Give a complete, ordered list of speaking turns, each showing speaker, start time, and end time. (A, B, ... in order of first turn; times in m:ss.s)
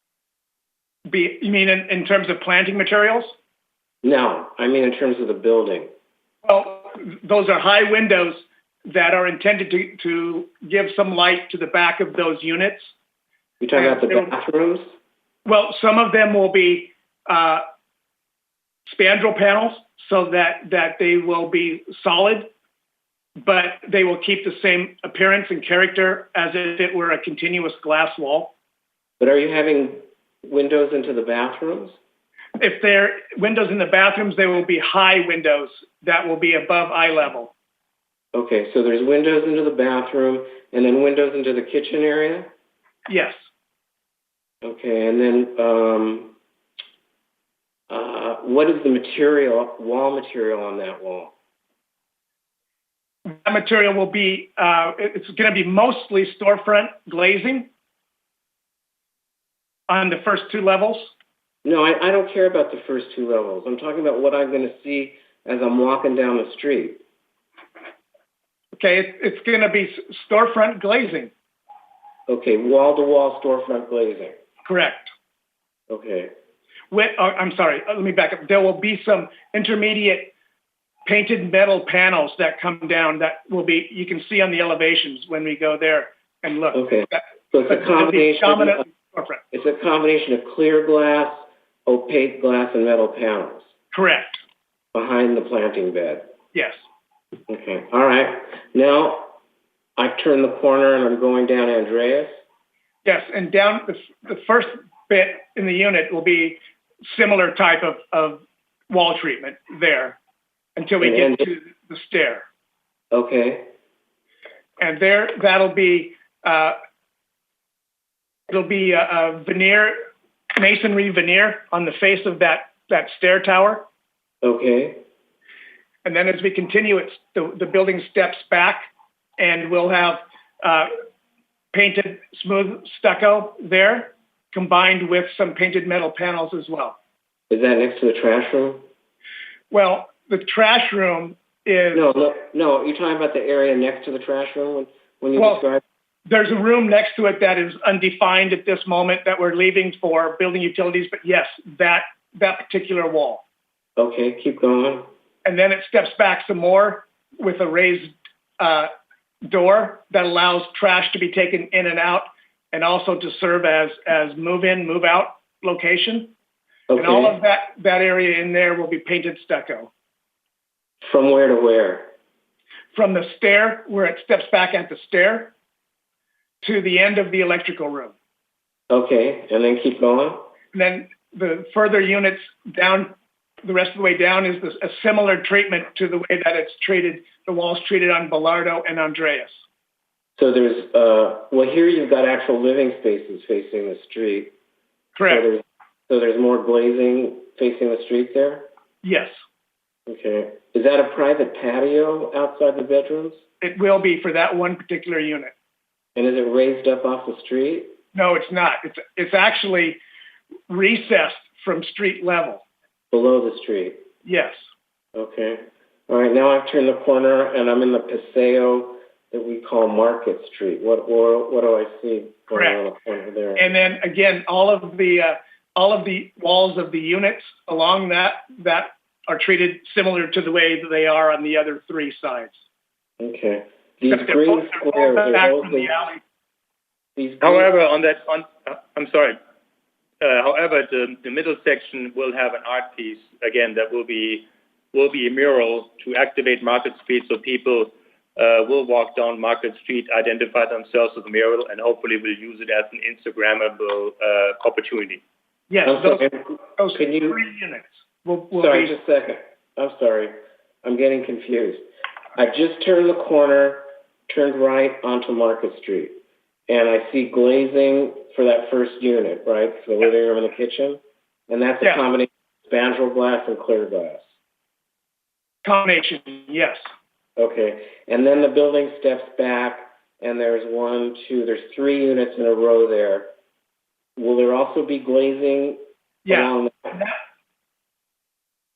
0:01.1-0:03.4 A
0:04.0-0:05.9 B
0:06.4-0:12.9 A
0:13.6-0:14.9 B
0:13.8-0:14.3 A
0:15.4-0:17.6 A
0:18.9-0:22.5 A
0:23.4-0:28.5 A
0:29.2-0:32.0 B
0:32.6-0:37.5 A
0:38.3-0:42.5 B
0:43.1-0:43.4 A
0:44.6-0:46.3 B
0:47.9-0:51.3 B
0:53.3-0:57.7 A
0:59.9-1:01.1 A
1:01.6-1:07.0 B
1:08.8-1:11.3 A
1:12.3-1:14.4 B
1:14.7-1:15.1 A
1:15.9-1:16.3 B
1:16.9-1:20.3 A
1:21.1-1:29.4 A
1:26.7-1:28.8 B
1:29.5-1:33.7 B
1:33.9-1:34.4 A
1:34.9-1:36.3 B
1:36.5-1:36.8 A
1:37.5-1:39.3 B
1:40.0-1:42.3 B
1:43.0-1:50.2 A
1:50.8-1:52.4 A
1:51.0-1:51.5 B
1:53.1-1:53.7 B
1:54.8-1:56.8 A
1:58.5-1:59.9 A
2:00.6-2:03.9 A
2:04.4-2:05.0 B
2:06.0-2:08.9 A
2:09.4-2:10.9 A
2:11.7-2:17.0 A
2:17.5-2:18.8 B
2:19.7-2:22.1 A
2:21.9-2:25.8 B
2:25.4-2:25.6 A
2:26.3-2:33.4 A
2:34.0-2:35.1 B
2:35.4-2:38.9 A
2:39.4-2:46.3 A
2:46.9-2:47.4 B
2:47.0-2:49.9 A
2:51.0-2:52.1 B
2:52.9-2:55.5 A
2:56.6-2:58.1 A
2:58.9-3:00.5 B
3:00.7-3:03.1 A
3:03.6-3:09.6 A
3:10.4-3:14.5 B
3:15.2-3:15.5 A
3:15.3-3:18.7 B
3:19.0-3:19.4 A
3:20.1-3:23.4 B
3:23.6-3:25.5 A
3:26.2-3:27.9 B
3:28.1-3:30.0 A
3:30.7-3:32.6 A
3:33.1-3:34.0 B
3:34.2-3:34.6 A
3:35.2-3:43.7 B
3:42.5-3:42.8 A
3:43.6-3:52.6 A
3:53.2-3:55.9 B
3:54.1-3:56.2 A
3:57.2-3:57.7 B
3:57.4-3:59.4 C
4:00.2-4:15.2 C
4:15.7-4:19.0 A
4:15.8-4:16.4 B
4:16.9-4:17.4 B
4:18.5-4:21.8 B
4:22.4-4:26.2 B
4:26.7-4:34.2 B
4:35.6-4:36.9 A
4:37.4-4:43.3 B
4:44.2-4:47.0 B
4:46.3-4:47.1 A